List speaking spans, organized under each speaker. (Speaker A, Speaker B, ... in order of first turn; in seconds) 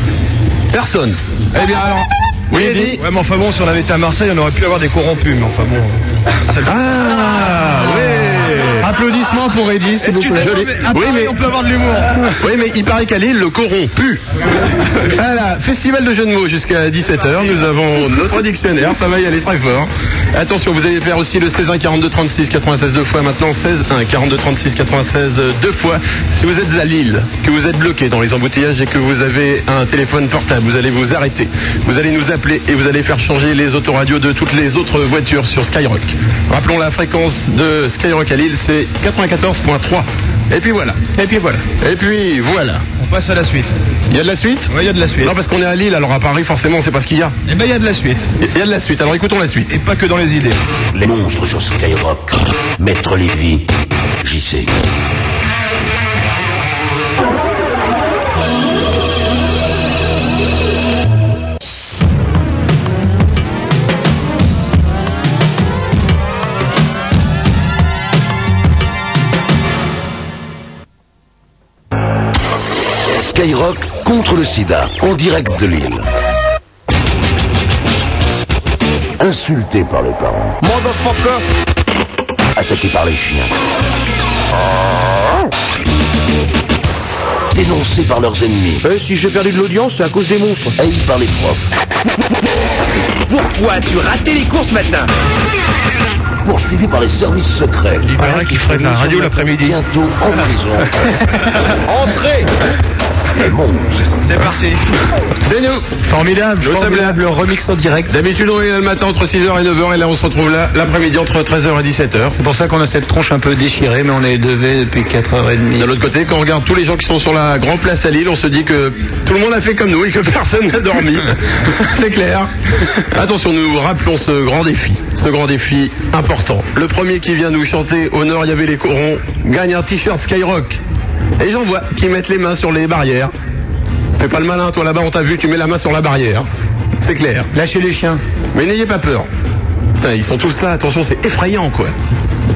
Speaker A: 0.7-3.0, 6.7-8.9, 10.4-11.4, 12.2-41.0, 41.6-42.9, 44.1-47.4, 48.4-49.7, 105.4-105.9, 106.6-107.2, 108.1-112.4, 115.8-130.8, 131.4-133.3, 134.2-136.5, 137.0-137.5, 138.5-139.3, 140.0-141.9
Speaker B: 2.5-6.7, 7.3-7.6, 10.0-12.2, 43.0-43.7, 44.7-45.3, 47.5-48.3, 49.7-50.6, 98.1-99.7, 104.2-104.8
Speaker C: 8.8-10.6, 41.1-41.6, 106.0-108.1, 112.3-115.9, 137.5-138.2
Speaker D: 50.9-53.7, 54.2-54.8, 73.1-76.1, 79.2-80.6, 82.5-83.5, 87.5-88.8, 90.8-91.7, 96.4-100.9, 103.3-104.4
Speaker E: 80.6-81.4, 88.8-90.7, 93.3-95.1, 98.3-99.6, 101.9-102.5